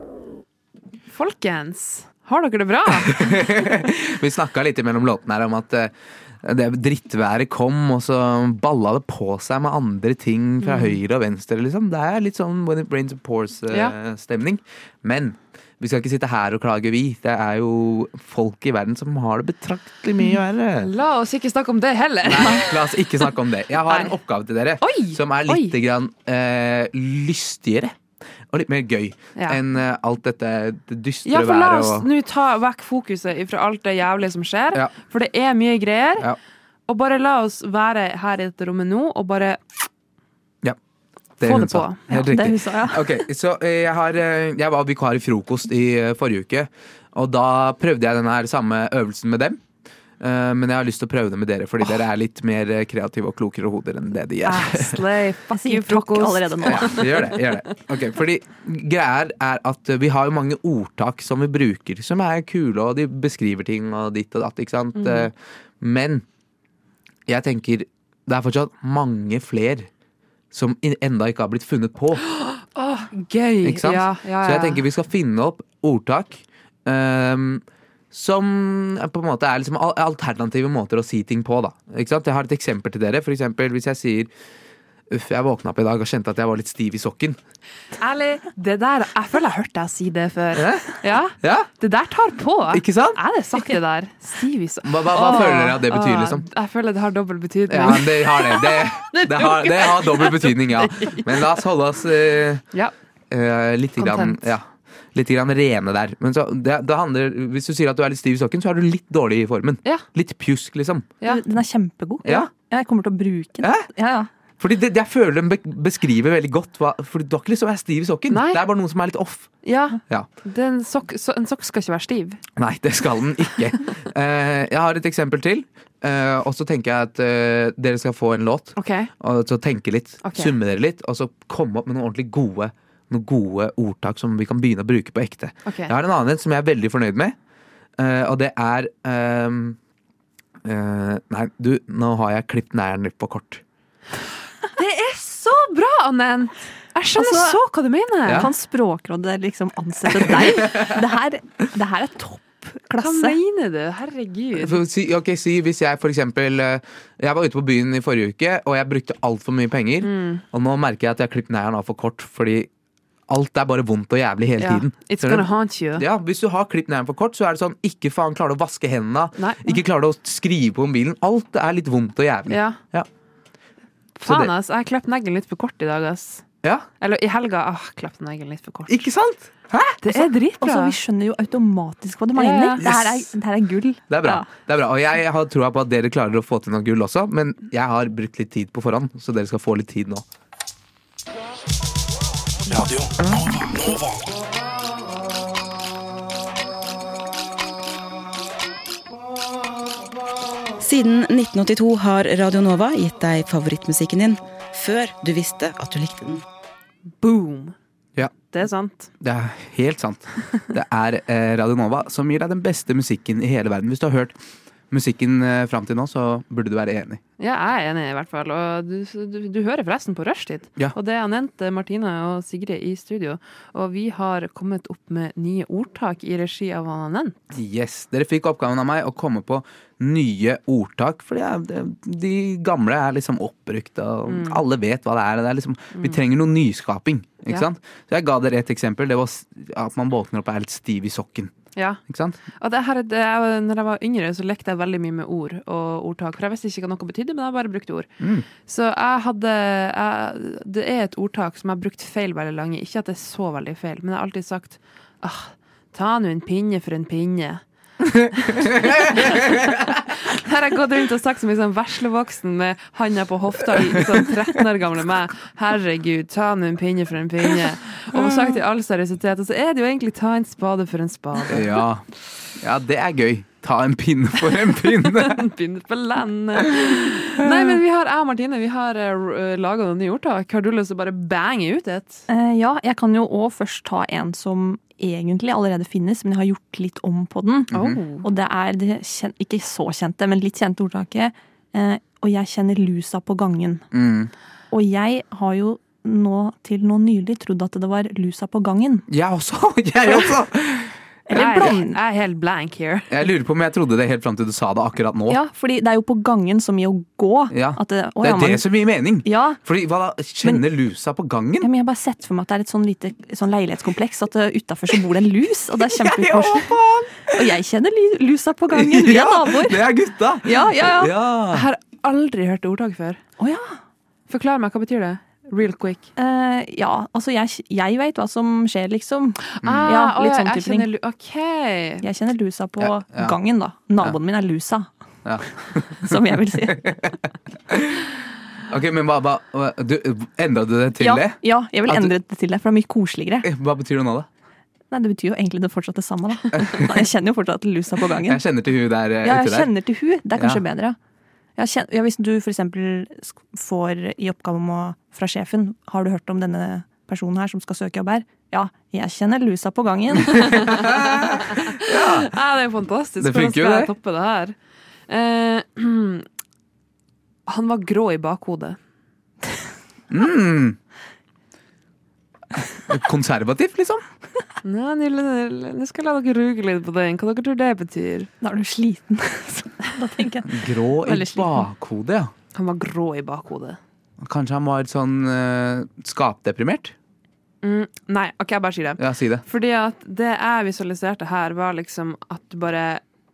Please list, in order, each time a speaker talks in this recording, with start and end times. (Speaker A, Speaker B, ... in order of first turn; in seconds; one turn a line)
Speaker A: 1.1-3.5
Speaker B: 3.0-20.9
Speaker A: 10.6-11.0
Speaker A: 13.7-13.9
Speaker A: 20.8-23.0
Speaker B: 22.2-27.9
Speaker A: 23.9-24.1
Speaker A: 24.8-25.8
Speaker B: 28.5-32.1
Speaker A: 31.2-36.3
Speaker A: 36.9-39.6
Speaker B: 41.4-49.6
Speaker A: 41.4-42.1
Speaker C: 42.1-43.2
Speaker B: 50.2-55.0
Speaker A: 54.4-57.5
Speaker C: 55.5-57.0
Speaker B: 56.6-66.2
Speaker A: 65.0-65.3
Speaker B: 67.3-69.9
Speaker B: 70.5-72.2
Speaker A: 72.4-74.8
Speaker B: 73.6-84.3
Speaker B: 85.1-87.4
Speaker A: 88.0-101.5
Speaker B: 90.5-90.9
Speaker B: 91.4-91.7
Speaker B: 92.7-93.2
Speaker B: 94.8-96.4
Speaker B: 97.7-102.6
Speaker B: 103.3-111.1
Speaker A: 104.0-104.5
Speaker C: 111.2-114.3
Speaker B: 112.2-112.5
Speaker B: 113.6-113.9
Speaker B: 114.6-119.5
Speaker A: 118.3-118.6
Speaker A: 119.6-122.4
Speaker B: 122.6-137.3
Speaker A: 128.8-129.1
Speaker A: 130.2-130.5
Speaker A: 135.7-135.9
Speaker B: 138.0-139.8
Speaker B: 140.6-143.6
Speaker A: 144.7-148.5
Speaker C: 147.2-147.6
Speaker B: 148.2-148.5
Speaker C: 148.3-153.4
Speaker A: 153.0-154.8
Speaker B: 154.6-162.7
Speaker A: 160.0-160.4
Speaker B: 163.3-173.1
Speaker A: 164.6-166.1
Speaker A: 169.4-169.8
Speaker A: 172.5-172.8
Speaker A: 174.2-176.4
Speaker B: 174.2-174.5
Speaker A: 177.0-179.0
Speaker B: 178.9-180.0
Speaker A: 180.0-180.9
Speaker C: 180.1-184.5
Speaker A: 182.3-182.8
Speaker B: 182.8-183.2
Speaker B: 184.1-190.2
Speaker D: 193.2-193.9
Speaker D: 200.8-206.4
Speaker A: 207.2-207.7
Speaker A: 208.5-209.1
Speaker B: 209.2-214.3
Speaker B: 214.9-217.2
Speaker A: 217.4-227.4
Speaker B: 227.5-241.5
Speaker A: 234.3-234.6
Speaker A: 235.9-236.2
Speaker A: 241.8-242.0
Speaker B: 242.1-242.4
Speaker A: 242.6-248.1
Speaker B: 248.2-248.5
Speaker A: 248.7-257.6
Speaker B: 258.0-259.8
Speaker A: 258.4-259.5
Speaker A: 260.1-271.8
Speaker B: 271.5-272.0
Speaker B: 272.6-275.4
Speaker A: 275.1-282.2
Speaker C: 282.3-293.9
Speaker B: 287.7-288.0
Speaker A: 287.7-288.2
Speaker B: 293.9-294.3
Speaker C: 294.7-299.1
Speaker B: 299.1-301.7
Speaker C: 301.3-302.0
Speaker A: 301.3-303.2
Speaker B: 303.1-305.4
Speaker C: 305.3-308.6
Speaker B: 307.5-311.7
Speaker C: 309.2-309.6
Speaker C: 311.6-319.9
Speaker B: 315.8-317.4
Speaker B: 318.7-321.7
Speaker C: 320.4-321.1
Speaker A: 321.5-323.2
Speaker C: 323.4-323.8
Speaker A: 324.3-326.1
Speaker C: 326.2-330.9
Speaker A: 329.5-332.0
Speaker B: 329.6-329.9
Speaker C: 332.0-334.9
Speaker B: 332.8-333.4
Speaker B: 335.2-337.1
Speaker C: 335.9-336.9
Speaker B: 337.7-338.1
Speaker B: 338.7-342.1
Speaker C: 341.0-343.5
Speaker B: 343.4-344.3
Speaker C: 344.9-348.4
Speaker B: 348.2-349.7
Speaker C: 349.2-351.0
Speaker B: 350.4-350.6
Speaker C: 351.6-360.6
Speaker B: 360.3-362.3
Speaker A: 361.5-364.5
Speaker B: 363.2-363.9
Speaker A: 365.1-366.2
Speaker A: 367.5-368.8
Speaker B: 370.1-370.8
Speaker B: 372.8-374.0
Speaker A: 374.6-378.3
Speaker C: 378.4-381.7
Speaker B: 380.4-382.3
Speaker A: 382.5-383.8
Speaker B: 384.2-386.9
Speaker A: 387.6-393.0
Speaker B: 389.0-389.4